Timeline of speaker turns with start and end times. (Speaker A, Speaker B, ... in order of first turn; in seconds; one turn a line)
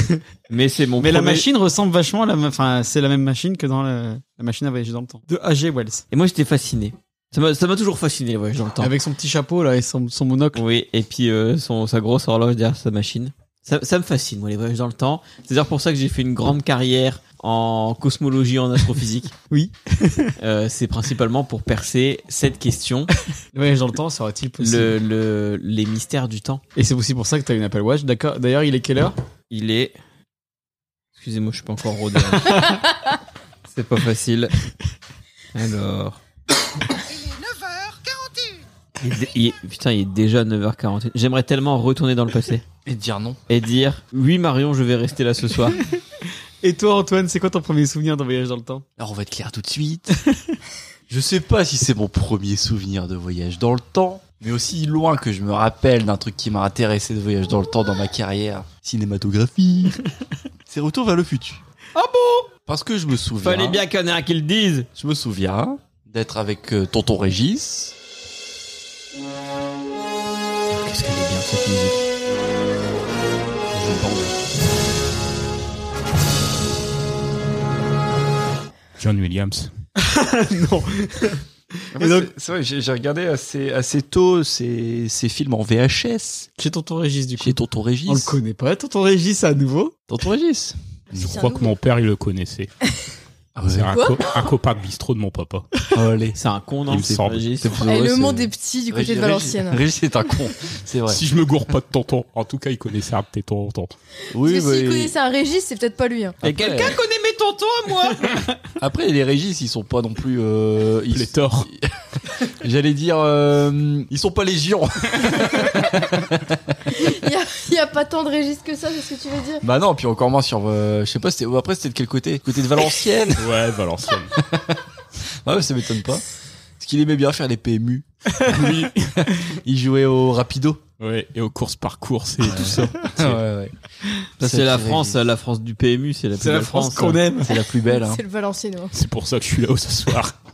Speaker A: 0.5-1.4
Speaker B: 1.0-6.0
Speaker A: 6.1-8.9
Speaker B: 8.8-10.6
Speaker A: 10.5-19.3
Speaker B: 19.5-20.3
Speaker A: 20.4-23.1
Speaker B: 23.5-24.9
Speaker A: 24.6-26.6
Speaker B: 26.7-29.1
Speaker A: 29.5-30.0
Speaker A: 31.1-32.9
Speaker A: 33.7-34.5
Speaker A: 35.5-36.2
Speaker A: 39.0-42.6
Speaker C: 42.8-43.4
Speaker A: 43.5-45.8
Speaker B: 46.6-48.8
Speaker C: 49.0-50.2
Speaker C: 51.1-60.0
Speaker C: 60.7-61.6
Speaker C: 62.6-63.8
Speaker A: 63.4-64.9
Speaker C: 65.0-67.9
Speaker A: 70.7-72.0
Speaker C: 73.7-74.3
Speaker D: 79.0-79.7
Speaker B: 80.0-81.4
Speaker B: 81.9-82.3
Speaker C: 81.9-86.5
Speaker B: 86.6-87.5
Speaker C: 87.4-88.4
Speaker B: 88.1-89.9
Speaker C: 90.1-90.7
Speaker E: 91.1-91.7
Speaker D: 91.2-92.7
Speaker C: 93.5-94.0
Speaker D: 93.7-95.9
Speaker E: 93.9-94.2
Speaker C: 95.9-96.4
Speaker A: 96.3-97.8
Speaker D: 96.9-97.5
Speaker C: 97.0-101.2
Speaker E: 97.8-99.8
Speaker D: 101.1-103.9
Speaker C: 104.3-105.1
Speaker E: 104.4-106.4
Speaker C: 106.4-107.0
Speaker A: 106.4-108.3
Speaker C: 108.8-111.8
Speaker D: 111.1-111.7
Speaker C: 112.6-116.7
Speaker E: 117.0-119.6
Speaker C: 119.6-123.5
Speaker D: 123.4-124.3
Speaker C: 124.3-124.8
Speaker C: 125.4-126.2
Speaker C: 126.8-130.8
Speaker D: 128.4-129.1
Speaker D: 131.0-133.4
Speaker C: 132.4-133.7
Speaker A: 134.4-137.2
Speaker C: 134.4-135.2
Speaker B: 136.4-137.5
Speaker C: 137.4-138.2
Speaker E: 137.8-138.9
Speaker D: 138.9-140.3